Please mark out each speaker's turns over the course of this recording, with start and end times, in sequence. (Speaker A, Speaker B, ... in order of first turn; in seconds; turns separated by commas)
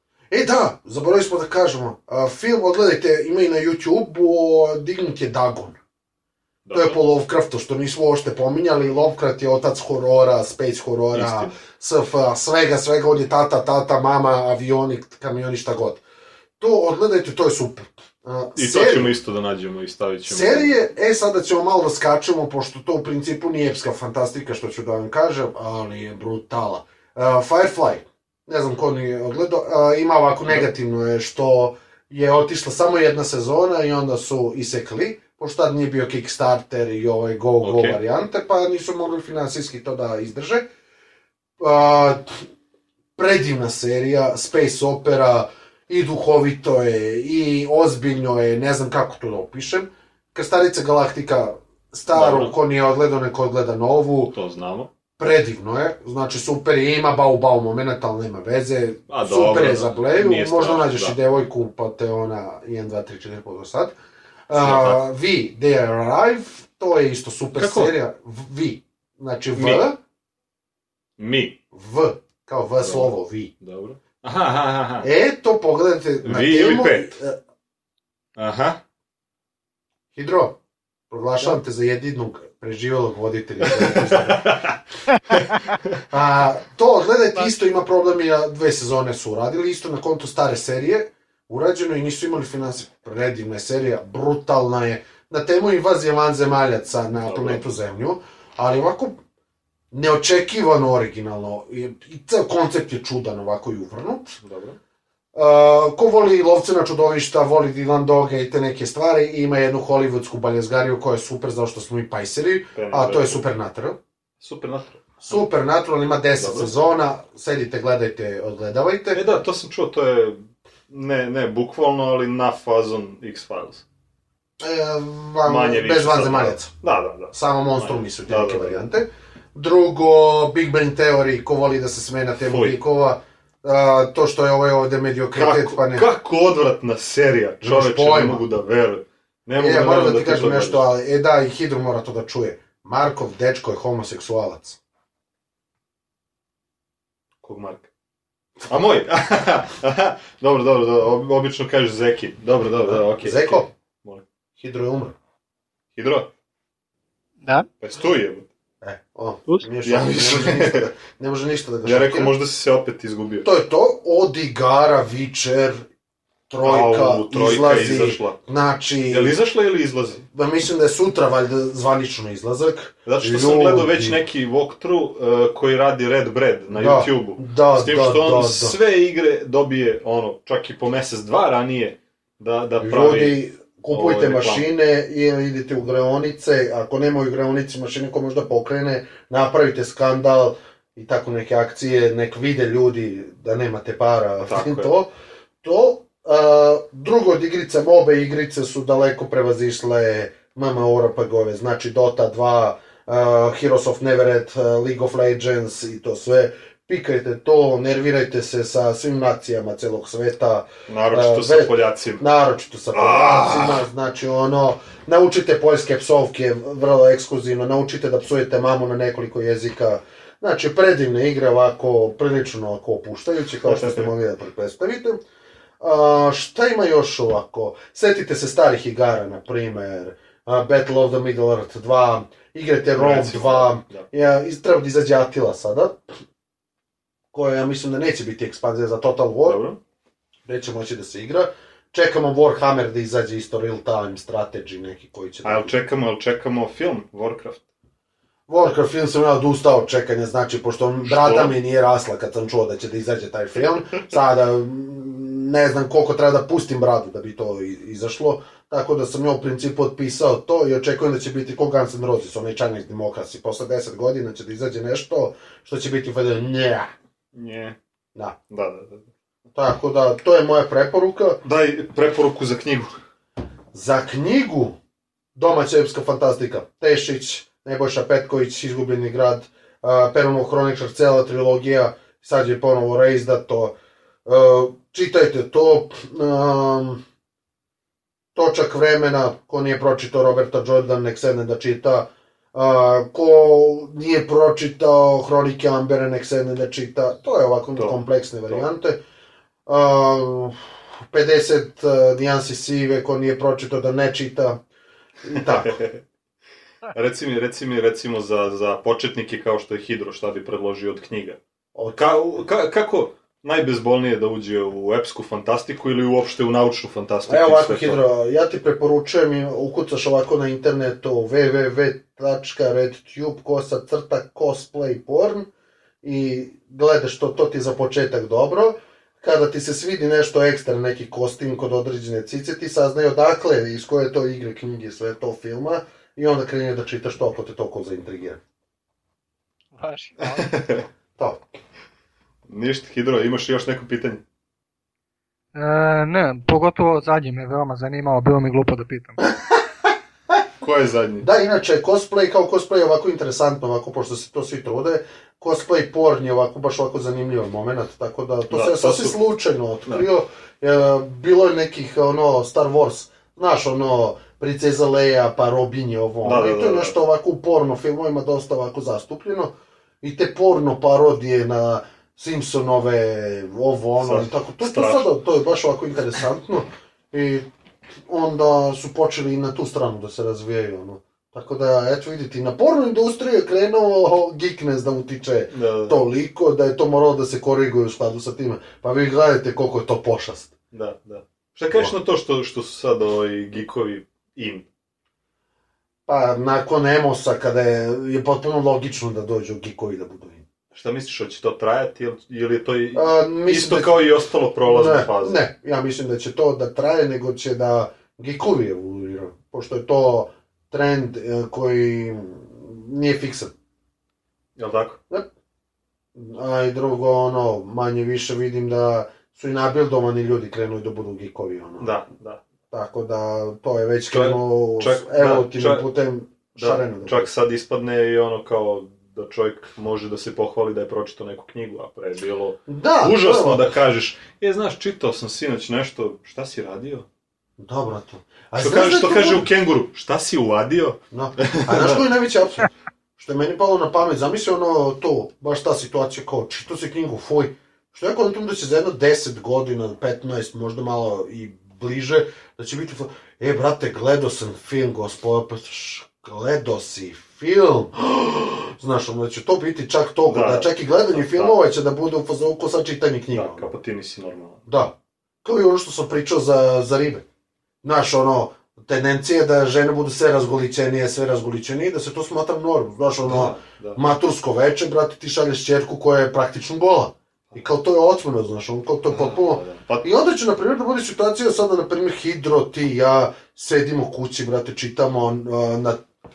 Speaker A: 0.3-5.8, Speaker B: 6.6-7.0, Speaker A: 6.7-16.0, Speaker B: 11.1-11.5, Speaker A: 16.6-19.1, Speaker B: 18.6-20.8, Speaker A: 20.3-40.7, Speaker B: 37.6-38.0, Speaker A: 41.6-42.4, Speaker A: 43.2-54.3, Speaker B: 52.1-52.5, Speaker B: 54.3-54.9, Speaker A: 55.2-63.9, Speaker B: 59.1-61.1, Speaker A: 64.5-70.0, Speaker B: 64.5-65.0, Speaker B: 67.5-67.9, Speaker B: 69.5-69.8, Speaker B: 71.2-71.6, Speaker A: 71.7-73.5, Speaker B: 72.8-75.1, Speaker A: 75.0-77.4, Speaker B: 76.2-77.2, Speaker B: 78.3-78.8, Speaker A: 80.1-80.6, Speaker A: 81.1-84.5, Speaker B: 83.7-84.8, Speaker B: 85.3-85.7, Speaker A: 86.1-99.2, Speaker B: 97.2-97.6, Speaker A: 99.9-104.4, Speaker B: 104.4-104.8, Speaker A: 105.3-114.0, Speaker B: 112.7-113.4, Speaker B: 114.4-115.4, Speaker A: 115.2-119.2, Speaker B: 116.4-116.7, Speaker B: 119.1-123.8, Speaker A: 124.6-126.7, Speaker B: 125.4-128.8, Speaker A: 127.3-136.1, Speaker B: 132.4-132.8, Speaker B: 135.3-140.8, Speaker A: 137.6-138.4, Speaker A: 139.6-144.8, Speaker B: 147.4-147.9, Speaker B: 148.7-154.2, Speaker A: 152.8-153.7, Speaker A: 154.6-155.1, Speaker B: 155.9-156.3, Speaker C: 157.4-157.7, Speaker B: 157.8-158.5, Speaker A: 158.8-162.3, Speaker B: 159.8-160.9, Speaker B: 161.8-163.5, Speaker A: 163.4-165.8, Speaker A: 166.5-169.3, Speaker B: 166.6-168.4, Speaker B: 169.1-170.2, Speaker A: 170.3-174.2, Speaker B: 173.1-183.4, Speaker A: 176.7-178.8, Speaker A: 182.8-195.1, Speaker B: 183.9-184.7, Speaker B: 194.5-194.9, Speaker A: 195.6-225.2, Speaker B: 210.9-212.2, Speaker B: 212.9-213.8, Speaker B: 223.6-224.1, Speaker A: 225.8-236.0, Speaker B: 232.9-234.1, Speaker A: 237.3-239.6, Speaker B: 239.4-239.8, Speaker A: 240.4-245.7, Speaker B: 245.4-247.6, Speaker A: 248.5-266.9, Speaker B: 251.1-251.5, Speaker B: 267.3-267.8, Speaker B: 268.5-269.1, Speaker A: 269.5-271.4, Speaker B: 271.4-273.0, Speaker A: 273.7-274.8, Speaker A: 275.3-283.7, Speaker A: 284.2-287.0, Speaker A: 288.3-299.0, Speaker A: 299.7-300.6, Speaker A: 301.1-304.6, Speaker A: 305.2-305.8, Speaker B: 305.4-306.0, Speaker B: 306.9-311.4, Speaker A: 311.7-312.1, Speaker B: 311.9-318.0, Speaker A: 317.3-325.5, Speaker A: 326.0-338.4, Speaker C: 339.7-340.5, Speaker B: 340.2-340.9, Speaker A: 341.2-341.4, Speaker B: 342.5-344.2, Speaker C: 345.5-349.2, Speaker A: 349.2-349.6, Speaker B: 350.6-351.2, Speaker A: 351.2-377.4, Speaker B: 358.5-359.1, Speaker B: 366.2-366.9, Speaker B: 374.0-375.0, Speaker A: 378.1-390.5, Speaker B: 385.5-385.9, Speaker B: 390.7-394.7, Speaker A: 396.1-400.4, Speaker B: 400.7-405.4, Speaker A: 402.9-403.9, Speaker A: 404.7-413.5, Speaker B: 414.6-415.0, Speaker A: 416.1-421.9, Speaker B: 421.8-422.4, Speaker A: 422.7-427.3, Speaker B: 424.1-425.9, Speaker B: 426.6-437.1, Speaker A: 432.7-433.7, Speaker A: 437.6-439.5, Speaker B: 438.6-442.0, Speaker A: 441.1-463.7, Speaker B: 460.3-461.6, Speaker B: 463.3-464.6, Speaker A: 464.7-467.2, Speaker A: 467.8-486.0, Speaker B: 473.2-474.0, Speaker B: 479.1-480.1